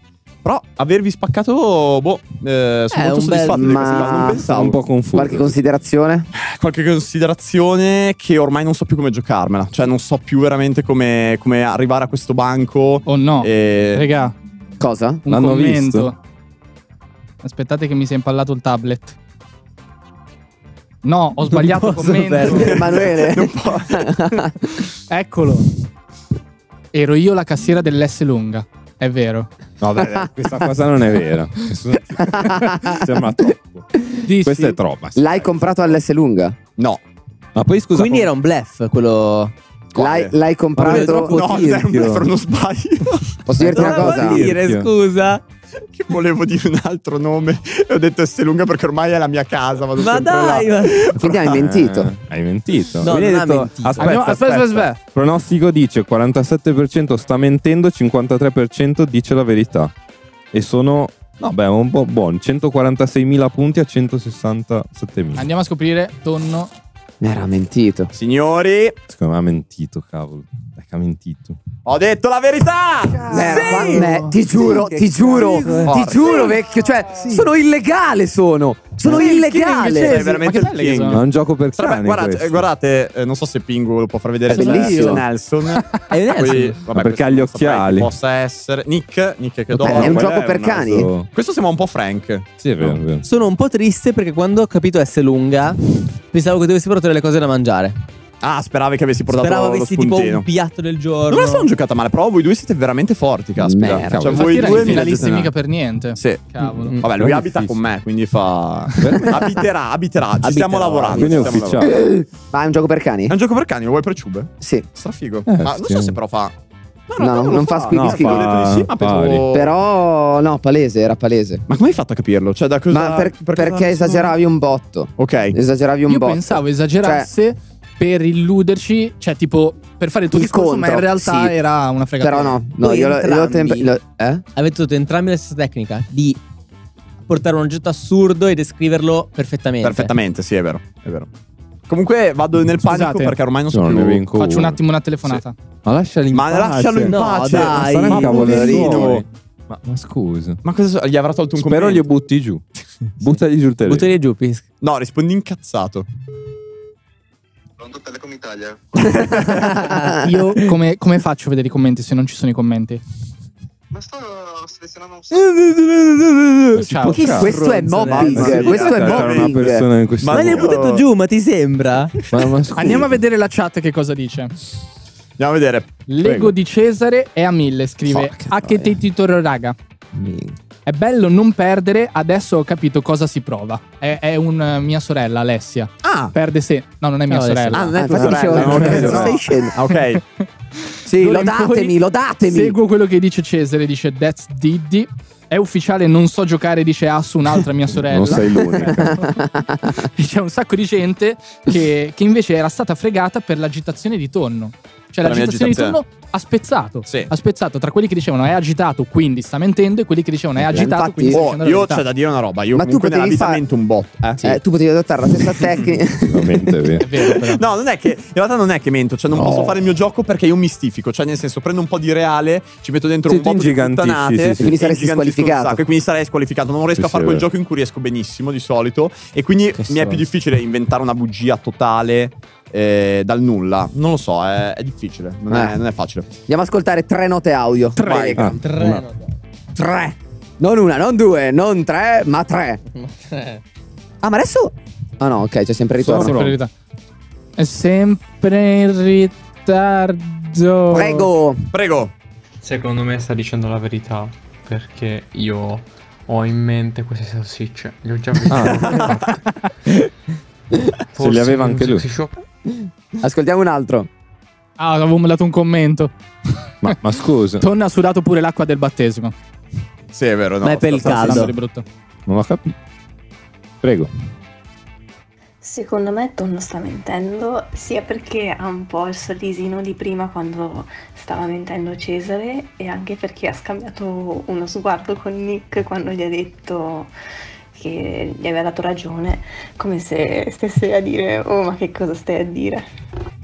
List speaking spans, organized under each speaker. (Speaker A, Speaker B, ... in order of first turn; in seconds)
Speaker A: 0.4-4.8, 6.3-14.1, 22.6-24.3, 39.9-40.3, 40.9-43.4, 45.9-51.6, 68.1-69.0, 71.8-74.0, 75.8-76.6, 80.0-81.2, 81.8-90.8, 91.3-93.0, 98.4-100.4, 101.3-105.5, 106.2-106.4, 107.0-111.9, 113.3-116.5, 117.1-119.7, 121.7-124.3, 125.2-125.6, 139.8-141.3, 141.9-144.2, 146.3-149.2, 150.6-152.1, 154.8-156.1, 159.1-159.7, 167.9-171.1, 175.4-175.9, 186.0-186.3, 187.7-190.2, 205.2-206.0, 211.3-214.6, 217.3-236.3, 238.0-238.4, 251.7-252.1, 270.1-271.5
Speaker B: 2.9-4.3, 21.5-22.9, 37.9-39.5, 43.6-45.4, 50.0-51.1, 53.0-54.3, 73.4-76.2, 77.2-77.5, 84.5-85.2, 86.1-86.8, 93.2-98.0, 99.3-101.7, 106.8-107.1, 110.5-111.1, 132.8-133.9, 134.5-136.4, 137.3-140.1, 147.1-149.1, 153.8-154.6, 159.6-160.7, 165.3-168.9, 170.3-172.2, 187.3-189.4, 229.8-230.2, 238.5-239.3, 242.9-243.6, 270.6-271.5
Speaker C: 3.5-4.5, 5.1-6.3, 14.8-15.2, 22.5-24.7, 30.2-30.5, 32.2-33.2, 35.1-36.6, 39.9-41.4, 43.5-44.5, 51.1-52.1, 67.2-68.1, 73.3-80.2, 84.5-85.2, 89.8-91.1, 103.6-104.8, 110.4-113.3, 114.6-114.8, 117.2-118.5, 119.5-121.6, 122.9-127.3, 130.3-131.5, 132.2-134.4, 159.8-160.2, 167.3-169.9, 178.2-178.8, 180.1-180.5, 188.0-189.7, 191.1-192.8, 198.9-200.1, 210.6-211.4, 212.7-213.6, 214.4-217.0, 224.6-225.8, 235.5-235.8, 236.5-239.0, 239.7-242.8, 244.2-246.4, 250.9-251.7, 263.2-264.1
Speaker D: 4.4-5.6, 15.3-16.1, 29.8-33.9, 34.4-35.4, 37.5-38.3, 40.8-42.3, 43.6-44.9, 51.6-59.9, 60.5-65.5, 69.1-71.6, 81.1-82.7, 86.9-88.1, 89.7-91.3, 92.6-93.2, 103.8-105.2, 107.1-107.8, 109.0-109.6, 111.1-112.0, 115.5-116.2, 117.9-119.5, 143.7-144.8, 145.3-150.6, 151.6-152.6, 153.2-154.1, 166.8-167.6, 168.2-170.8, 172.3-173.2, 176.2-176.5, 188.4-189.3, 198.0-199.2, 216.2-217.1, 219.4-219.7, 223.3-224.8, 227.0-227.4, 246.0-246.6, 258.5-259.1, 261.2-262.1, 266.8-267.6, 272.3-272.6, 273.8-274.1
Speaker E: 13.1-14.3, 15.2-16.1, 17.4-19.1, 21.0-22.7, 25.1-25.7, 26.9-29.5, 34.2-34.8, 54.0-55.0, 65.3-66.7, 73.2-74.3, 79.0-81.2, 85.7-86.0, 104.3-107.0, 126.1-132.6, 142.8-143.4, 144.3-145.5, 160.2-163.0, 166.8-167.2, 172.7-174.5, 176.1-179.8, 180.8-187.9, 190.4-191.9, 192.5-199.2, 200.0-212.0, 217.0-217.6, 238.0-238.3, 246.1-246.7, 247.6-251.3, 264.8-266.1, 267.6-269.3, 271.0-271.8
Speaker F: 157.8-158.9, 163.9-165.4
Speaker G: 252.6-259.4, 261.1-262.3
Speaker H: 275.6-287.1, 287.7-292.8